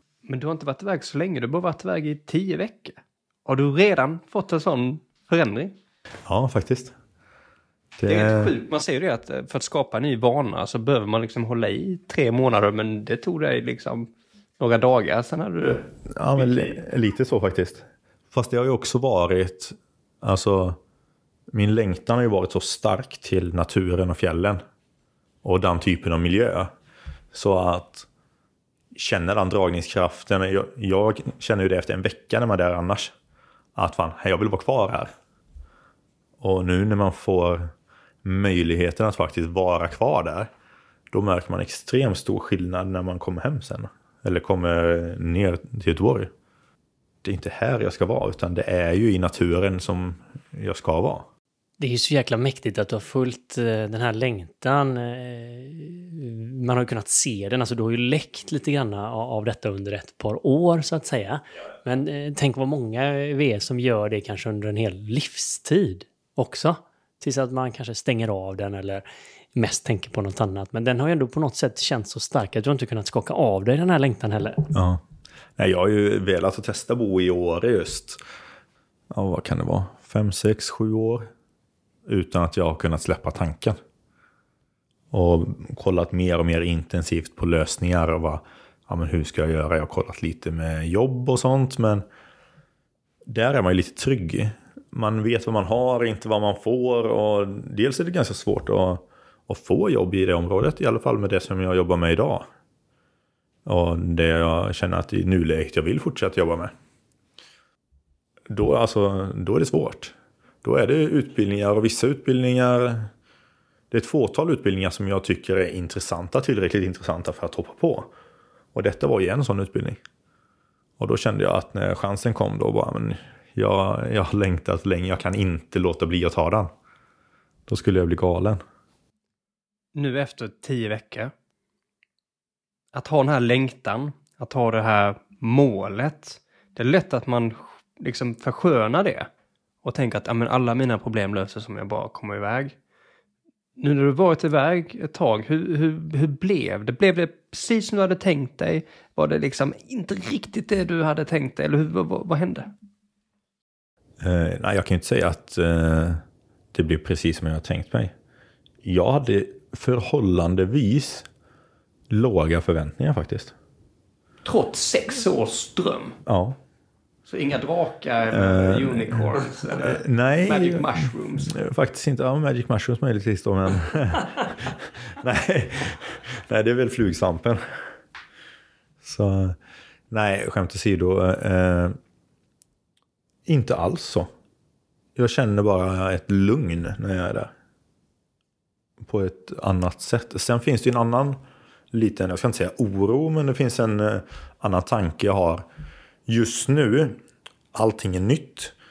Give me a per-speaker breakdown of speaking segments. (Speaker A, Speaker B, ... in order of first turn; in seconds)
Speaker A: 0.2-5.7, 8.1-16.7, 129.9-131.3, 132.9-139.3, 139.8-142.7, 143.8-152.7, 164.4-166.2, 167.3-171.5
Speaker B: 6.3-6.9, 8.0-8.5, 16.1-20.8, 21.5-24.6, 25.4-26.7, 27.3-28.1, 28.9-33.1, 33.8-35.1, 36.4-37.7, 38.2-40.5, 41.1-46.3, 47.2-51.2, 74.7-75.0, 75.6-78.2, 79.1-81.3, 82.1-83.8, 85.1-92.0, 93.3-102.5, 103.7-106.7, 108.5-110.1, 110.6-113.1, 113.9-118.1, 118.7-120.0, 121.0-126.7, 127.7-128.6, 154.2-156.2, 156.7-158.1, 158.8-161.3, 162.1-163.5, 166.2-166.6, 168.3-177.6, 179.0-179.6, 180.1-182.0, 183.5-184.3, 185.2-187.5, 189.0-191.4, 191.9-195.6, 196.3-197.2, 197.7-198.7
Speaker C: 51.8-74.7